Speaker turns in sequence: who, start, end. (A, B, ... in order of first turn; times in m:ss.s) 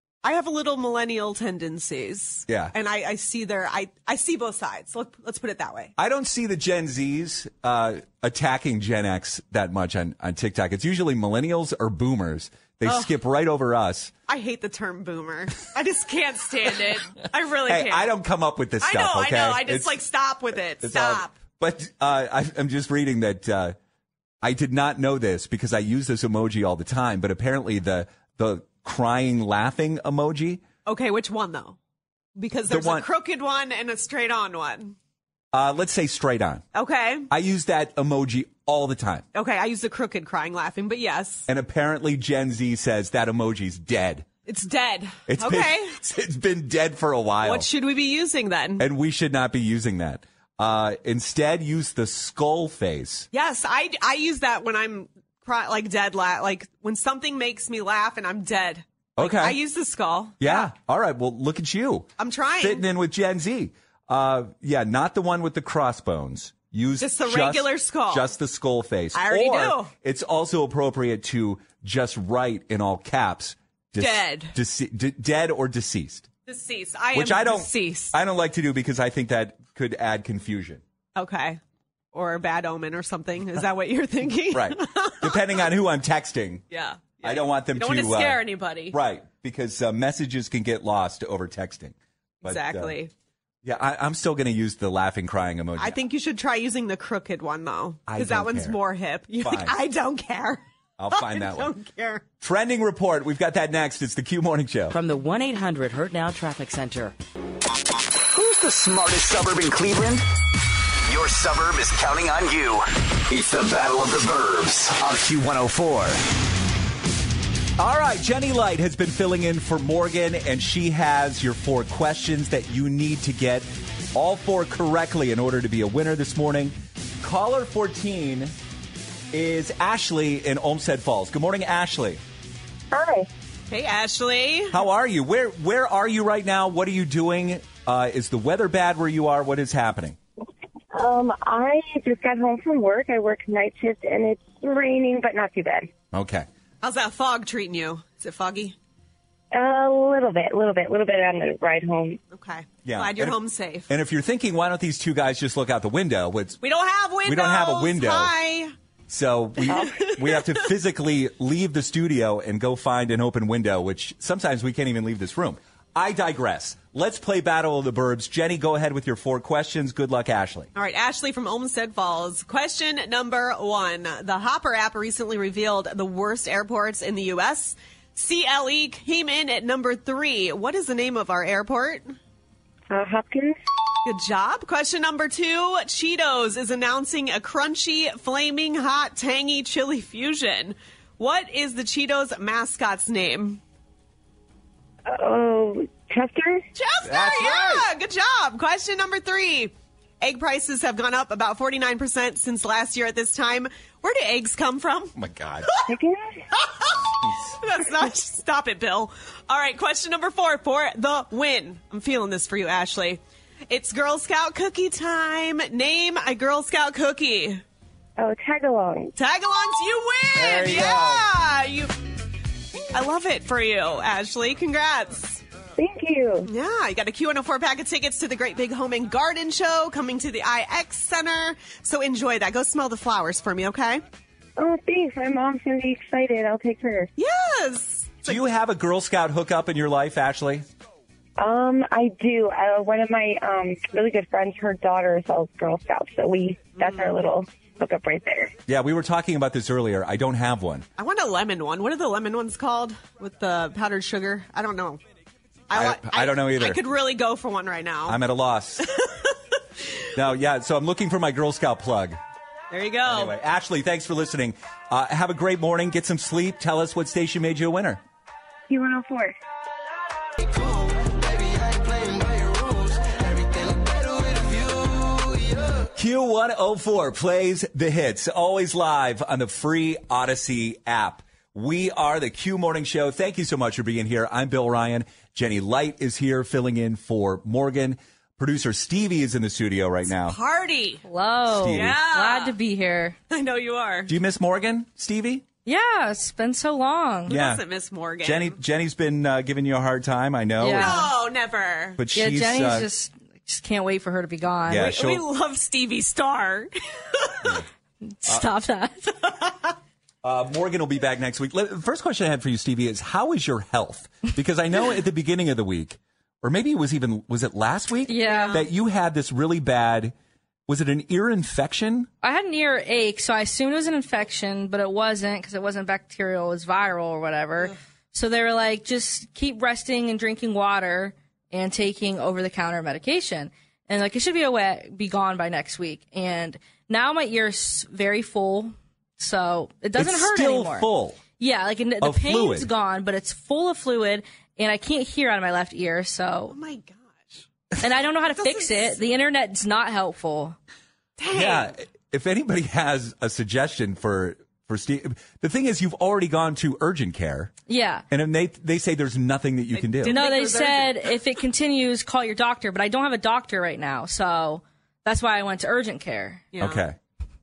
0:00.2-0:05.9 A
0:02.5-0:02.7 B
0:06.0-0:14.1 B
0:12.8-0:13.1 A
0:14.3-0:18.1 A
0:17.7-0:20.0 B
0:18.8-0:21.4 A
0:20.8-0:23.7 B
0:24.4-0:30.6 B
0:30.8-0:31.8 A
0:32.4-0:35.0 A
0:32.7-0:33.0 B
0:35.5-0:36.6 B
0:36.7-0:37.3 A
0:37.3-0:39.2 B
0:39.3-0:41.5 A
0:41.5-0:44.3 B
0:44.4-0:45.9 A
0:45.3-0:47.7 B
0:47.4-0:48.9 A
0:48.8-0:53.3 B
0:53.3-1:00.7 A
0:59.2-0:59.6 B
1:00.4-1:02.1 B
1:02.2-1:02.8 A
1:02.6-1:16.3 B
1:07.0-1:08.3 A
1:09.1-1:09.9 A
1:14.0-1:14.5 A
1:16.4-1:18.2 A
1:17.1-1:20.8 B
1:21.1-1:21.6 A
1:22.1-1:25.7 A
1:24.5-1:26.6 B
1:26.7-1:29.0 A
1:27.2-1:32.9 B
1:32.4-1:33.1 A
1:33.6-1:36.0 B
1:35.8-1:42.2 A
1:38.1-1:38.8 B
1:39.4-1:39.7 B
1:41.0-1:41.7 B
1:42.4-1:45.0 B
1:44.9-1:47.1 C
1:48.3-1:50.2 D
1:51.0-1:56.2 D
1:57.8-2:08.5 B
2:09.3-2:12.2 B
2:12.9-2:13.3 E
2:13.7-2:14.8 A
2:14.7-2:20.2 B
2:20.9-2:25.9 E
2:26.1-2:26.5 B
2:26.8-2:28.8 A
2:29.5-2:32.2 E
2:32.3-2:33.9 A
2:32.8-2:33.4 B
2:33.9-2:36.6 B
2:36.6-2:38.7 A
2:37.2-2:38.3 B
2:39.1-2:50.7 B
2:39.6-2:40.7 A
2:50.7-3:02.2 A
3:02.9-3:03.6 E
3:04.0-3:13.6 A
3:15.1-3:16.6 E
3:16.7-3:25.1 A
3:17.0-3:17.8 B
3:25.2-3:25.7 B
3:25.9-3:26.4 E
3:26.5-3:37.6 A
3:27.2-3:27.5 B
3:38.2-3:39.1 E
3:39.2-3:42.0 A
3:40.3-3:41.3 B
3:42.9-3:45.4 A
3:45.8-3:46.5 E
3:46.4-3:54.0 A
3:54.6-3:57.1 E
3:57.2-3:58.4 A
3:58.2-4:00.6 B
4:01.4-4:08.5 E
4:06.8-4:07.2 A
4:08.7-4:10.8 B
4:11.0-4:15.0 A
4:15.7-4:18.2 A
4:15.7-4:16.8 B
4:18.1-4:18.9 B
4:18.8-4:19.8 A
4:20.1-4:22.2 B
4:22.7-4:23.4 A
4:23.0-4:28.0 B
4:28.7-4:29.3 E
4:36.0-4:50.4 B
4:50.1-4:51.0 A
4:51.0-4:53.2 F
4:51.5-4:51.9 B
4:51.7-4:52.6 A
4:53.3-4:54.1 A
4:54.1-4:55.4 B
4:55.6-4:57.4 F
4:57.3-4:58.6 A
4:57.3-4:57.6 B
4:58.2-5:01.1 B
5:00.6-5:01.1 F
5:00.7-5:02.0 A
5:02.0-5:02.9 B
5:02.1-5:04.9 F
5:04.7-5:05.2 B
5:04.7-5:07.6 A
5:08.2-5:09.1 F
5:10.2-5:20.1 B
5:18.1-5:18.6 F
5:18.2-5:18.7 A
5:20.7-5:22.1 B
5:22.2-5:46.5 F
5:40.0-5:41.2 B
5:42.0-5:42.7 B
5:46.5-5:47.4 A
5:47.8-5:50.6 F
5:48.3-5:49.0 A
5:51.2-5:51.7 A
5:51.3-5:57.5 B
5:57.7-5:58.0 F
5:58.1-6:00.2 B
5:59.7-6:01.2 A
6:00.1-6:06.5 F
6:06.5-6:06.8 A
6:06.6-6:07.0 B